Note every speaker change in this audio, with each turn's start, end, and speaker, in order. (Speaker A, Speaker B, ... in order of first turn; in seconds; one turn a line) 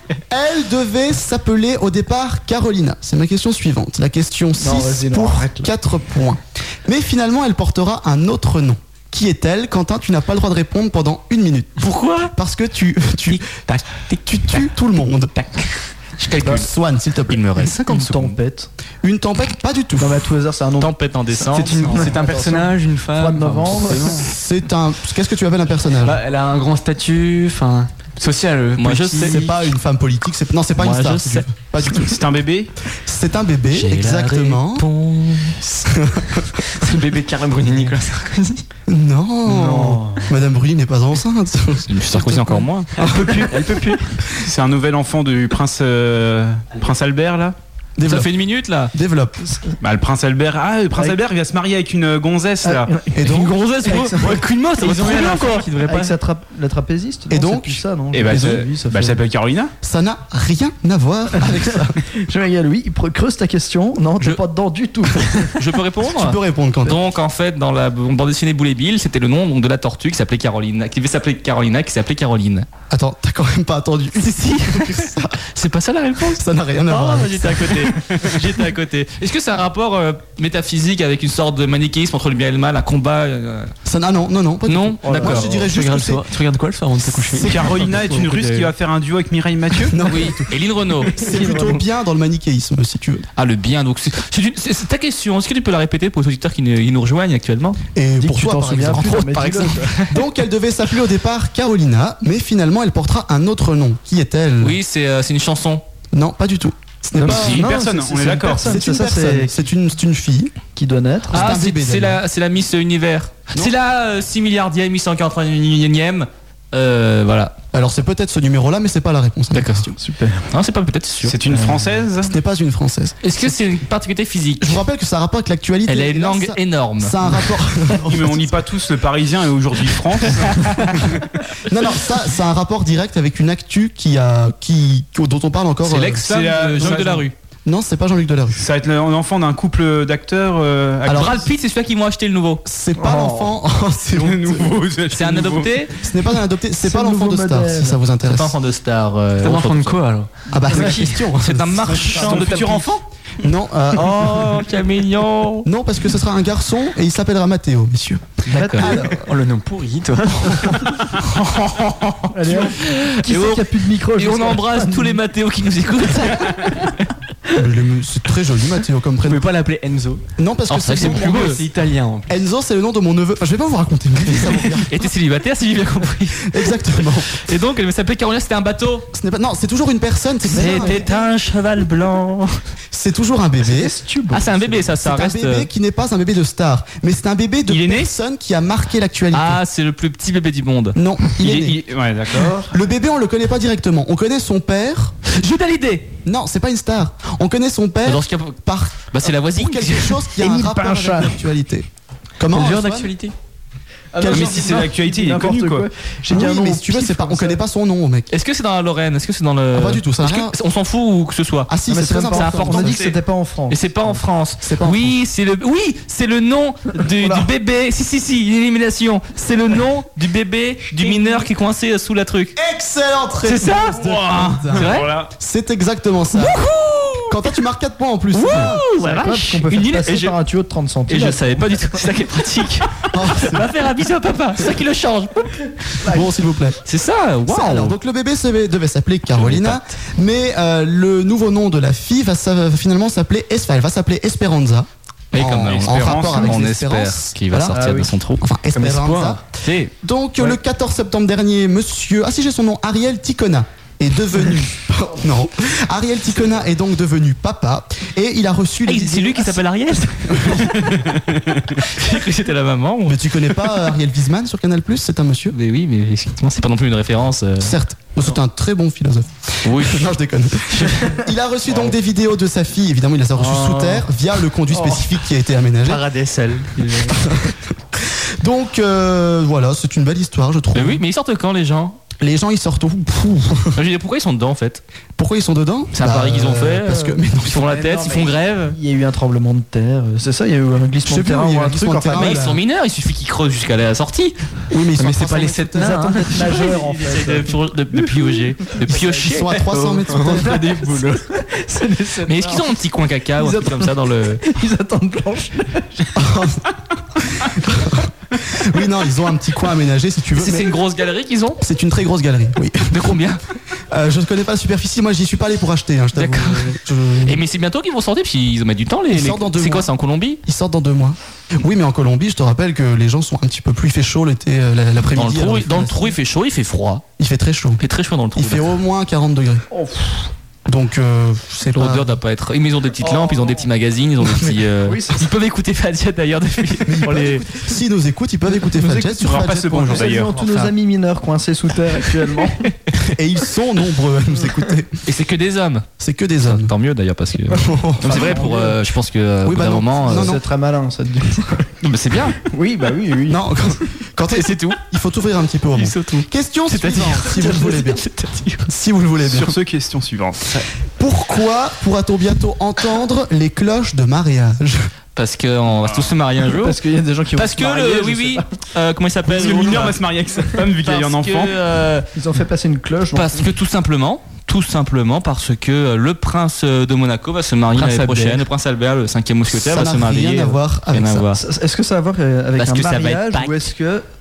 Speaker A: 0.3-13.4
Speaker B: 4.6-5.7
Speaker C: 11.8-12.3
Speaker A: 14.2-15.3
Speaker C: 16.2-16.6
Speaker A: 16.4-17.4
Speaker C: 17.3-18.4
Speaker B: 17.9-18.7
Speaker A: 19.0-20.2
Speaker B: 20.0-20.9
Speaker C: 20.8-22.2
Speaker D: 21.5-24.2
Speaker B: 21.5-24.2
Speaker A: 24.1-26.2
Speaker D: 26.0-29.5
Speaker C: 28.8-29.5
Speaker A: 29.1-32.2
Speaker C: 30.8-31.5
Speaker E: 32.0-32.7
Speaker A: 32.9-34.9
Speaker C: 33.7-35.8
Speaker A: 35.9-36.5
Speaker D: 36.8-38.6
Speaker A: 38.9-43.4
Speaker B: 39.5-40.3
Speaker C: 41.9-42.9
Speaker D: 43.1-44.0
Speaker E: 44.4-47.5
Speaker A: 48.0-48.3
Speaker C: 48.0-48.9
Speaker A: 48.9-49.4
Speaker E: 49.8-52.9
Speaker B: 52.6-53.2
Speaker A: 53.1-53.5
Speaker C: 53.1-56.1
Speaker B: 53.8-59.2
Speaker D: 54.9-55.8
Speaker A: 57.3-58.6
Speaker E: 58.1-59.7
Speaker A: 59.8-62.0
Speaker B: 62.1-65.6
Speaker C: 65.5-72.7
Speaker A: 66.1-67.0
Speaker A: 72.9-75.4
Speaker C: 74.2-83.7
Speaker A: 76.3-77.9
Speaker A: 83.8-86.2
Speaker C: 84.7-85.6
Speaker B: 85.0-85.3
Speaker D: 85.1-88.0
Speaker C: 87.4-88.7
Speaker E: 87.5-90.0
Speaker A: 89.9-90.5
Speaker C: 90.0-91.6
Speaker A: 91.1-93.2
Speaker B: 91.2-91.8
Speaker C: 93.3-97.8
Speaker A: 97.9-99.4
Speaker B: 98.2-100.0
Speaker C: 98.9-100.2
Speaker A: 100.0-104.8
Speaker C: 104.6-105.8
Speaker A: 106.1-107.6
Speaker B: 107.2-109.6
Speaker C: 107.2-107.7
Speaker E: 107.3-108.7
Speaker A: 108.6-110.5
Speaker B: 110.8-111.5
Speaker A: 111.3-112.2
Speaker C: 111.3-117.5
Speaker A: 117.7-119.9
Speaker C: 119.5-120.0
Speaker B: 120.0-120.4
Speaker C: 120.5-121.4
Speaker E: 121.2-122.3
Speaker A: 122.2-123.3
Speaker C: 123.2-124.8
Speaker A: 124.6-128.5
Speaker C: 125.9-127.5
Speaker E: 128.0-130.7
Speaker C: 130.5-131.0
Speaker A: 131.7-137.0
Speaker C: 135.8-137.3
Speaker E: 136.2-137.3
Speaker A: 137.7-138.6
Speaker E: 138.5-141.4
Speaker A: 141.1-141.4
Speaker C: 141.1-142.6
Speaker A: 142.6-144.8
Speaker B: 143.0-143.5
Speaker E: 144.1-145.7
Speaker C: 145.1-145.9
Speaker A: 146.0-148.5
Speaker B: 146.8-148.0
Speaker C: 148.2-150.0
Speaker D: 149.4-150.9
Speaker A: 150.5-152.4
Speaker B: 150.6-150.9
Speaker C: 150.8-153.0
Speaker B: 152.0-152.5
Speaker E: 152.1-153.0
Speaker A: 153.4-154.6
Speaker C: 153.9-155.7
Speaker A: 155.6-159.2
Speaker C: 158.5-158.9
Speaker B: 158.5-158.9
Speaker D: 159.1-161.0
Speaker C: 161.2-167.0
Speaker B: 162.3-165.2
Speaker A: 167.6-169.5
Speaker D: 169.2-170.2
Speaker A: 170.4-171.6
Speaker C: 170.7-171.6
Speaker D: 170.9-172.4
Speaker A: 172.3-175.1
Speaker C: 174.9-176.8
Speaker A: 176.4-177.4
Speaker C: 177.3-179.1
Speaker A: 179.1-181.1
Speaker C: 180.4-182.6
Speaker B: 180.5-181.2
Speaker A: 182.9-183.9
Speaker B: 183.6-184.8
Speaker C: 184.3-185.7
Speaker A: 184.8-189.6
Speaker E: 187.7-188.1
Speaker C: 189.3-191.0
Speaker A: 190.9-191.8
Speaker E: 191.4-192.7
Speaker A: 192.7-195.1
Speaker C: 195.3-196.1
Speaker A: 196.2-201.9
Speaker C: 198.0-200.3
Speaker B: 200.4-201.3
Speaker A: 202.4-203.1
Speaker D: 202.5-203.3
Speaker B: 204.1-207.6
Speaker A: 204.2-204.8
Speaker E: 204.3-205.9
Speaker A: 206.3-208.3
Speaker C: 208.3-211.7
Speaker A: 209.7-210.5
Speaker A: 211.7-213.0
Speaker B: 211.9-214.2
Speaker C: 212.3-213.2
Speaker C: 213.7-222.5
Speaker A: 214.6-215.2
Speaker B: 217.2-217.5
Speaker A: 222.6-226.6
Speaker C: 223.4-225.1
Speaker E: 224.0-225.3
Speaker C: 226.3-227.4
Speaker A: 227.3-228.8
Speaker C: 228.3-230.4
Speaker B: 228.7-232.0
Speaker C: 231.1-235.7
Speaker A: 233.1-233.7
Speaker A: 236.0-236.8
Speaker C: 236.8-237.9
Speaker A: 237.5-247.8
Speaker C: 239.3-239.8
Speaker C: 245.3-248.4
Speaker E: 245.6-246.5
Speaker B: 247.7-248.1
Speaker A: 248.4-249.4
Speaker D: 248.7-249.4
Speaker C: 249.6-249.9
Speaker A: 250.0-259.6
Speaker C: 258.9-263.8
Speaker A: 260.3-260.8
Speaker A: 263.1-265.5
Speaker C: 265.5-267.8
Speaker A: 267.6-276.0
Speaker C: 269.6-270.1
Speaker B: 273.4-274.0
Speaker C: 275.8-277.1
Speaker A: 277.2-281.0
Speaker C: 280.7-282.0
Speaker A: 282.2-283.8
Speaker C: 283.7-284.8
Speaker A: 285.2-287.8
Speaker C: 285.9-288.8
Speaker B: 287.6-292.4
Speaker A: 291.1-292.6
Speaker C: 292.1-294.4
Speaker A: 294.7-296.0
Speaker D: 294.9-296.6
Speaker B: 295.7-298.0
Speaker C: 296.4-299.6
Speaker B: 298.9-299.2
Speaker A: 298.9-300.6
Speaker D: 299.6-301.2
Speaker B: 300.2-302.7
Speaker C: 302.2-304.4
Speaker B: 303.4-306.2
Speaker A: 306.1-306.6
Speaker A: 307.2-310.8
Speaker C: 310.3-311.6
Speaker A: 311.6-313.1
Speaker C: 312.9-313.4
Speaker A: 313.9-317.4
Speaker C: 316.1-320.4
Speaker A: 319.1-319.9
Speaker A: 320.4-326.1
Speaker C: 325.1-327.0
Speaker A: 327.2-327.8
Speaker C: 327.8-328.7
Speaker A: 328.3-329.6
Speaker B: 329.7-330.2
Speaker A: 330.6-332.2
Speaker C: 331.7-337.5
Speaker B: 333.0-333.6
Speaker B: 334.8-335.3
Speaker A: 336.8-340.1
Speaker B: 338.8-342.7
Speaker E: 339.0-340.3
Speaker C: 340.4-340.7
Speaker A: 343.1-345.0
Speaker C: 345.1-345.9
Speaker A: 346.0-346.7
Speaker C: 346.4-350.4
Speaker A: 347.5-348.5
Speaker B: 348.0-348.8
Speaker A: 349.4-350.4
Speaker B: 350.0-351.7
Speaker C: 351.8-352.4
Speaker B: 352.4-353.4
Speaker A: 353.3-358.0
Speaker C: 354.3-354.8
Speaker C: 355.7-358.7
Speaker A: 358.7-359.6
Speaker E: 359.2-360.6
Speaker A: 361.0-364.9
Speaker C: 365.1-366.8
Speaker B: 366.4-368.4
Speaker C: 367.3-370.0
Speaker E: 369.2-371.6
Speaker C: 370.5-372.1
Speaker B: 372.1-373.5
Speaker C: 373.1-381.4
Speaker B: 377.8-378.4
Speaker A: 379.5-381.3
Speaker B: 381.4-384.0
Speaker C: 382.6-383.6